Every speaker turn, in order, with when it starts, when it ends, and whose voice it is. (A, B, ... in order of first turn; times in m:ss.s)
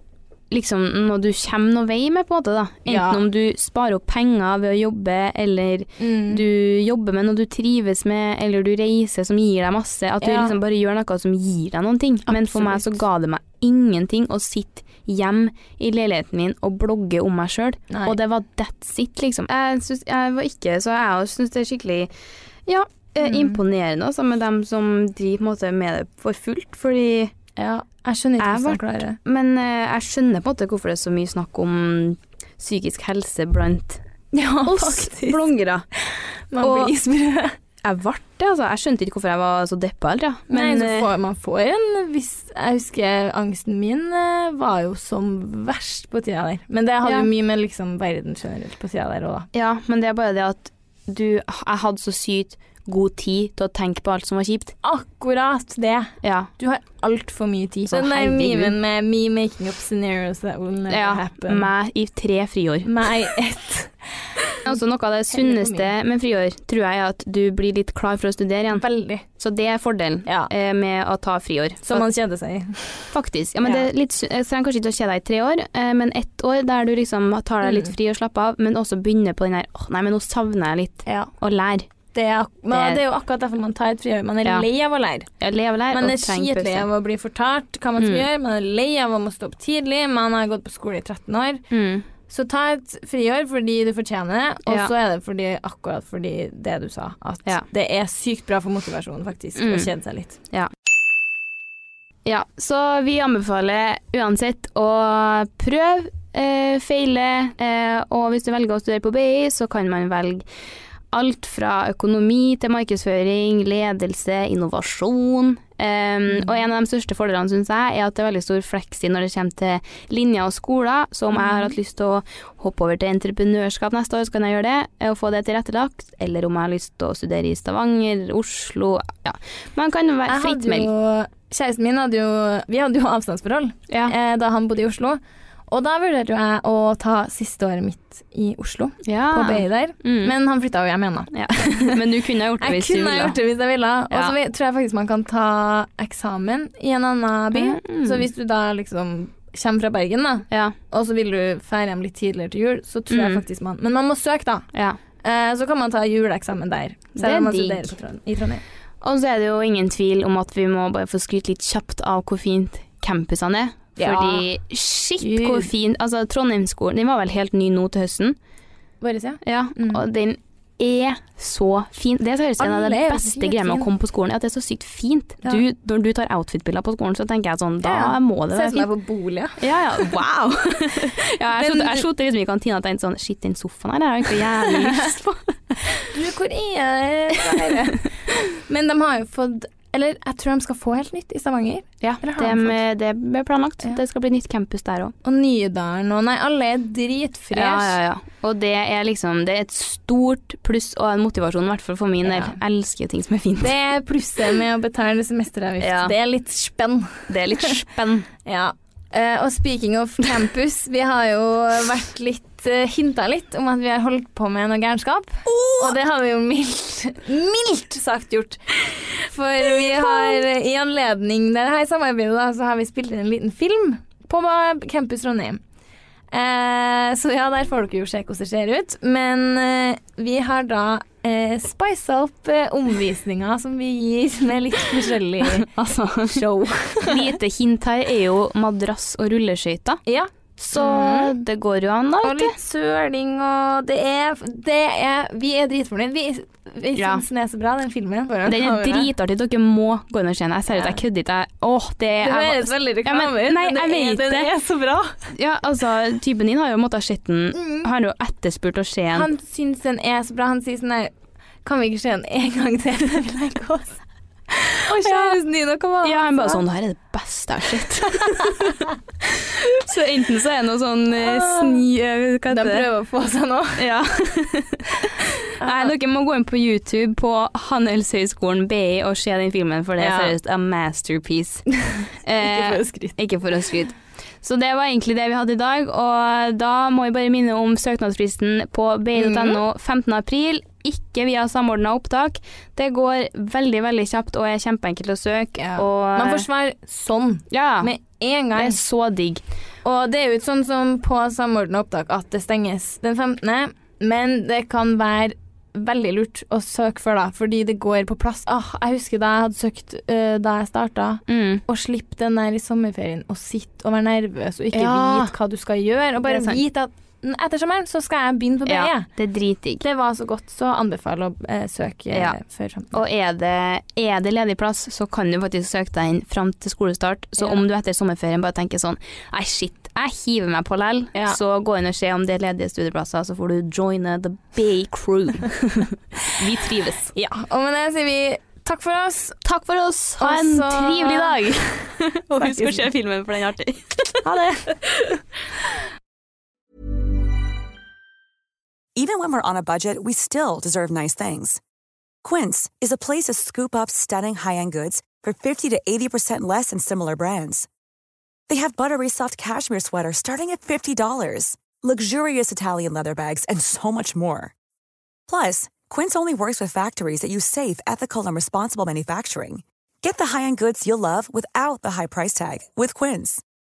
0:00.5-0:22.1 A
0:02.9-0:03.2 B
0:06.0-0:06.4 B
0:10.2-0:10.6 B
0:12.3-0:13.0 B
0:17.9-0:18.2 B
0:22.7-0:27.3 A
0:23.2-0:23.6 B
0:27.6-0:29.2 B
0:28.4-0:34.0 A
0:34.3-0:35.4 B
0:34.6-0:35.9 A
0:36.1-0:37.6 B
0:36.6-0:36.9 A
0:37.8-0:41.1 A
0:40.5-0:49.5 B
0:49.5-0:54.8 A
0:54.8-1:01.7 B
0:56.2-0:56.5 A
0:57.9-0:58.8 A
1:00.9-1:03.0 A
1:02.9-1:04.0 B
1:04.6-1:12.1 A
1:05.3-1:05.9 B
1:08.7-1:09.2 B
1:10.3-1:10.5 B
1:11.8-1:13.9 B
1:13.1-1:21.9 A
1:17.6-1:17.9 B
1:21.0-1:21.3 B
1:22.1-1:25.3 B
1:22.7-1:23.0 A
1:25.4-1:26.9 A
1:25.9-1:31.6 B
1:28.0-1:28.2 A
1:31.7-1:32.1 A
1:32.3-1:40.4 B
1:34.7-1:34.9 A
1:39.6-1:39.9 A
1:42.3-1:50.5 A
1:51.1-2:10.9 A
1:56.3-1:56.6 B
2:01.3-2:01.8 B
2:10.3-2:22.0 B
2:13.9-2:14.2 A
2:19.0-2:20.3 A
2:21.3-2:23.4 A
2:22.6-2:34.7 B
2:24.1-2:24.4 A
2:27.5-2:28.2 A
2:30.5-2:30.8 A
2:33.1-2:33.4 A
2:35.2-2:38.6 B
2:37.2-2:37.9 A
2:39.0-2:48.4 A
2:44.0-2:44.5 B
2:45.2-2:45.7 B
2:49.0-2:50.0 B
2:49.4-2:58.9 A
2:52.6-2:53.9 B
2:57.8-3:00.2 B
2:59.6-3:06.0 A
3:01.5-3:02.1 B
3:04.6-3:05.2 B
3:06.1-3:12.8 B
3:07.5-3:07.8 A
3:12.0-3:15.1 A
3:15.2-3:18.0 B
3:17.5-3:23.8 A
3:22.2-3:22.6 B
3:23.6-3:27.8 B
3:25.8-3:26.1 A
3:27.3-3:28.3 A
3:28.4-3:45.6 B
3:35.5-3:36.0 A
3:39.6-3:40.4 A
3:46.3-3:55.7 B
3:55.4-3:56.4 A
3:56.3-3:57.4 B
3:57.0-4:00.0 A
4:00.1-4:01.4 B
4:00.6-4:02.5 A
4:02.2-4:09.1 B
4:07.0-4:07.2 A
4:08.5-4:14.5 A
4:10.7-4:11.0 B
4:12.2-4:15.2 B
4:15.3-4:19.3 A
4:17.5-4:17.9 B
4:19.1-4:21.1 B
4:21.6-4:24.0 B
4:24.5-4:26.6 B
4:24.9-4:25.4 A
4:26.0-4:32.9 A
4:28.0-4:28.7 B
4:31.2-4:31.9 B
4:32.5-4:33.8 B
4:33.8-4:41.6 A
4:35.6-4:35.9 B
4:40.0-4:40.4 B
4:41.8-4:43.2 B
4:42.2-4:56.5 A
4:49.2-4:49.6 B
4:55.6-4:58.8 B
4:57.5-4:57.9 A
4:58.6-4:59.4 A
4:59.8-5:19.1 B
5:11.3-5:11.6 A
5:14.7-5:15.3 A
5:16.2-5:16.6 A
5:18.7-5:19.8 A
5:19.8-5:23.0 B
5:22.1-5:22.4 A
5:22.9-5:37.1 A
5:31.1-5:31.4 B
5:37.2-5:39.4 B
5:39.4-5:44.2 A
5:40.2-5:42.9 B
5:44.2-5:44.8 B
5:49.0-5:51.6 C
5:52.2-5:57.7 C
5:58.5-6:04.5 C
6:05.3-6:13.4 C